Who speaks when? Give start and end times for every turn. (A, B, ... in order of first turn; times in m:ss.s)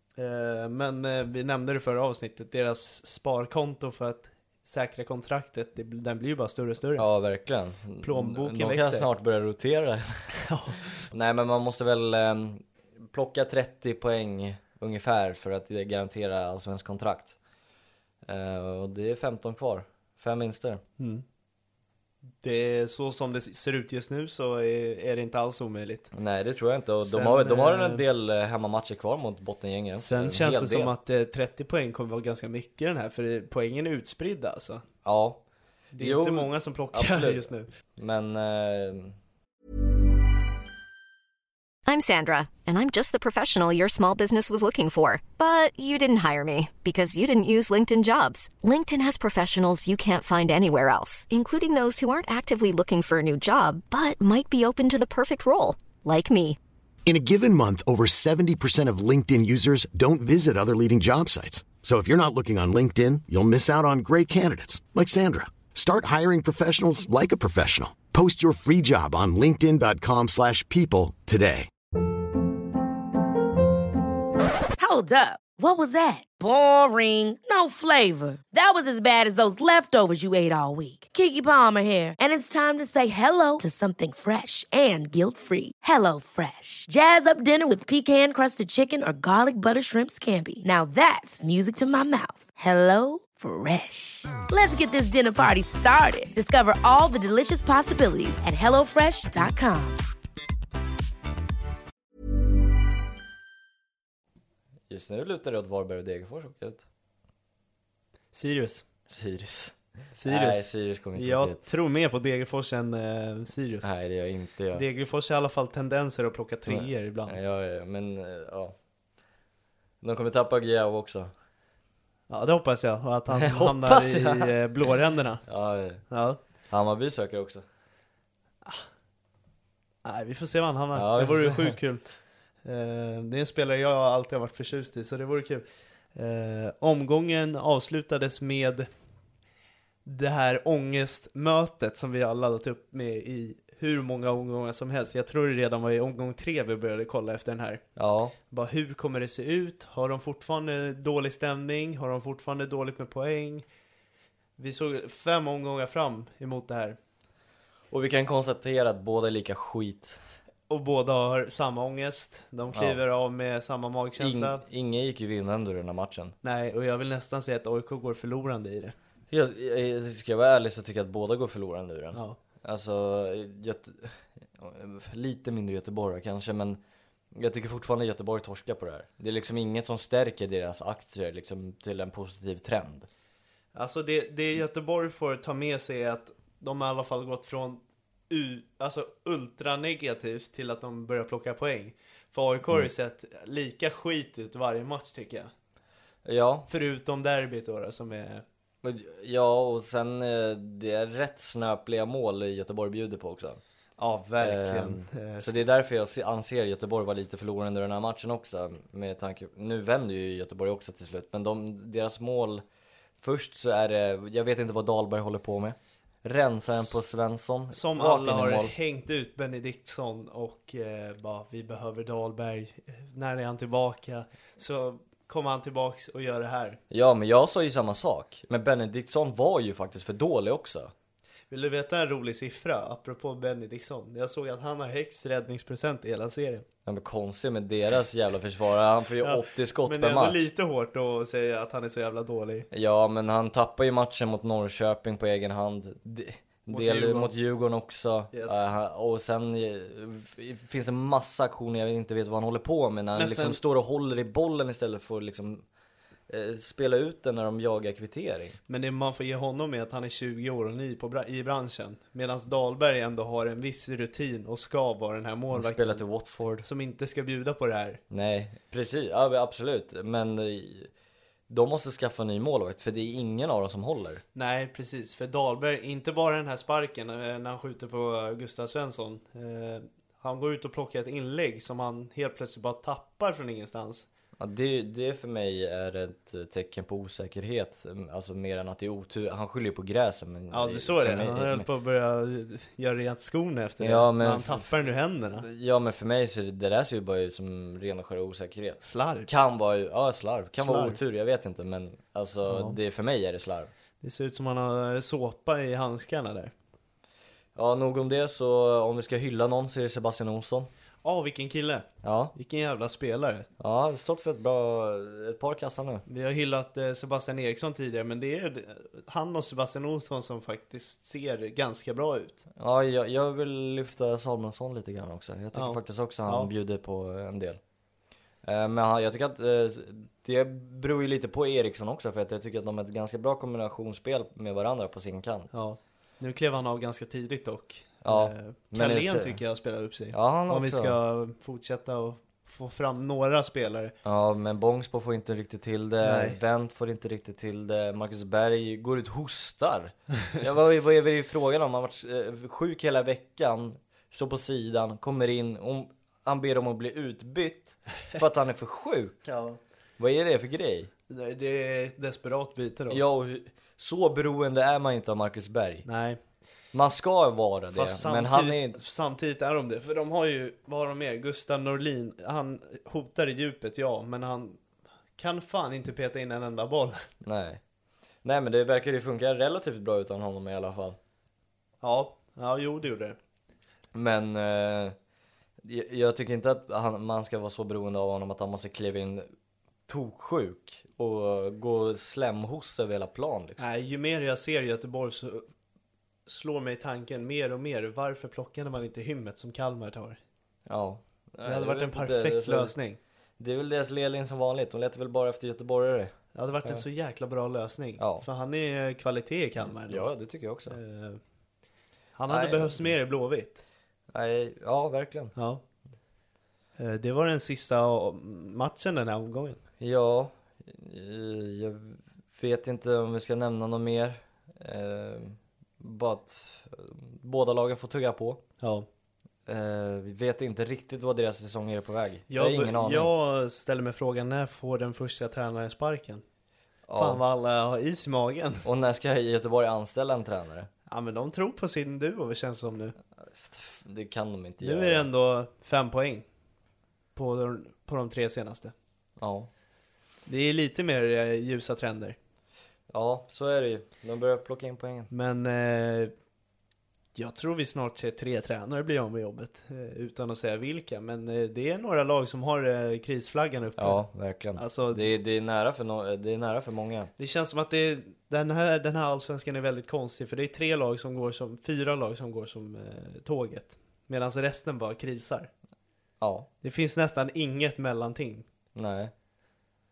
0:00.2-0:07.1 A
0:07.0-0:10.3 B
0:08.0-0:09.1 A
0:10.4-0:11.0 A
0:11.0-0:17.4 B
0:18.2-0:20.8 B
0:21.0-0:21.2 A
0:22.4-0:26.1 A
0:26.1-0:30.9 B
0:27.0-0:28.0 A
0:30.0-0:34.8 A
0:35.0-0:35.4 B
0:35.9-0:37.7 A
0:36.0-0:39.2 B
0:41.9-0:56.6 C
0:57.1-1:11.7 D
1:14.8-1:40.0 E
1:44.9-1:46.8 B
1:48.3-1:48.8 A
1:49.1-1:51.6 B
1:50.2-1:53.9 A
1:53.8-1:54.9 B
1:54.7-1:57.4 A
1:56.7-1:58.8 B
2:00.0-2:01.3 B
2:02.3-2:05.4 A
2:03.3-2:04.9 B
2:05.4-2:06.0 B
2:06.1-2:06.4 A
2:06.7-2:07.6 B
2:10.0-2:12.0 A
2:10.9-2:11.8 B
2:12.6-2:18.9 A
2:20.1-2:27.8 A
2:28.0-2:28.4 B
2:28.5-2:33.6 A
2:34.6-2:37.0 A
2:37.9-2:40.2 B
2:40.7-2:44.6 A
2:42.7-2:43.0 B
2:44.2-2:46.4 B
2:46.4-2:49.0 A
2:49.3-2:56.8 B
2:57.3-3:03.1 B
3:03.7-3:15.5 A
3:16.2-3:16.7 B
3:16.7-3:18.4 A
3:18.8-3:23.6 B
3:24.0-3:25.7 A
3:24.4-3:32.6 B
3:33.2-3:38.7 B
3:37.7-3:46.8 A
3:46.9-3:50.9 B
3:51.5-3:56.6 A
3:56.8-4:00.4 B
3:59.2-4:02.7 A
4:02.7-4:15.6 B
4:06.7-4:07.3 A
4:08.3-4:08.6 A
4:13.1-4:13.6 A
4:16.3-4:18.6 B
4:18.7-4:26.0 A
4:25.5-4:26.7 B
4:26.6-4:28.0 A
4:28.1-4:30.9 B
4:31.5-4:34.2 B
4:34.4-4:44.1 A
4:44.4-4:51.7 B
4:50.5-4:55.4 A
4:53.8-5:03.7 B
4:58.8-4:59.3 A
5:00.6-5:01.0 A
5:02.4-5:02.8 A
5:04.0-5:06.5 A
5:07.6-5:10.7 B
5:11.0-5:13.5 A
5:12.0-5:12.3 B
5:13.6-5:16.0 B
5:16.1-5:22.4 A
5:22.6-5:27.6 B
5:25.5-5:26.5 A
5:28.4-5:35.5 B
5:35.5-5:44.0 A
5:38.0-5:39.4 B
5:40.1-5:41.0 B
5:44.0-5:59.3 B
5:46.0-5:46.4 A
5:59.2-5:59.6 A
6:00.0-6:00.9 B
6:01.1-6:03.0 A
6:02.9-6:05.9 B
6:05.8-6:06.2 A
6:06.7-6:08.8 B
6:07.7-6:14.6 A
6:15.2-6:17.0 A
6:17.2-6:17.6 B
6:18.2-6:21.0 B
6:21.8-6:23.2 A
6:23.9-6:25.0 B
6:25.6-6:29.3 B
6:29.9-6:33.6 B
6:33.6-6:35.4 A
6:36.3-6:40.2 A
6:40.7-6:42.7 B
6:41.4-6:43.0 A
6:43.4-6:46.8 B
6:46.3-6:50.1 A
6:48.0-6:48.3 B
6:49.6-6:50.8 B
6:50.7-6:51.2 A
6:52.2-6:53.6 A
6:52.3-6:52.9 B
6:54.1-6:55.3 B
6:55.4-6:55.6 A
6:56.8-6:59.6 A
6:59.8-7:08.4 B
7:08.6-7:08.9 A
7:09.4-7:13.1 B
7:12.3-7:16.2 A
7:16.9-7:17.2 B
7:17.0-7:18.6 A
7:18.6-7:20.7 B
7:20.9-7:23.0 A
7:23.2-7:25.1 B
7:24.6-7:26.2 A
7:27.1-7:28.7 A
7:29.2-7:29.5 B
7:30.3-7:32.2 A
7:32.9-7:35.1 B
7:35.1-7:36.1 A
7:37.1-7:44.0 A
7:43.8-7:47.1 B
7:44.6-7:45.1 A
7:47.2-7:55.5 A
7:56.2-7:56.5 B
7:56.6-7:58.4 A
7:58.7-7:59.1 B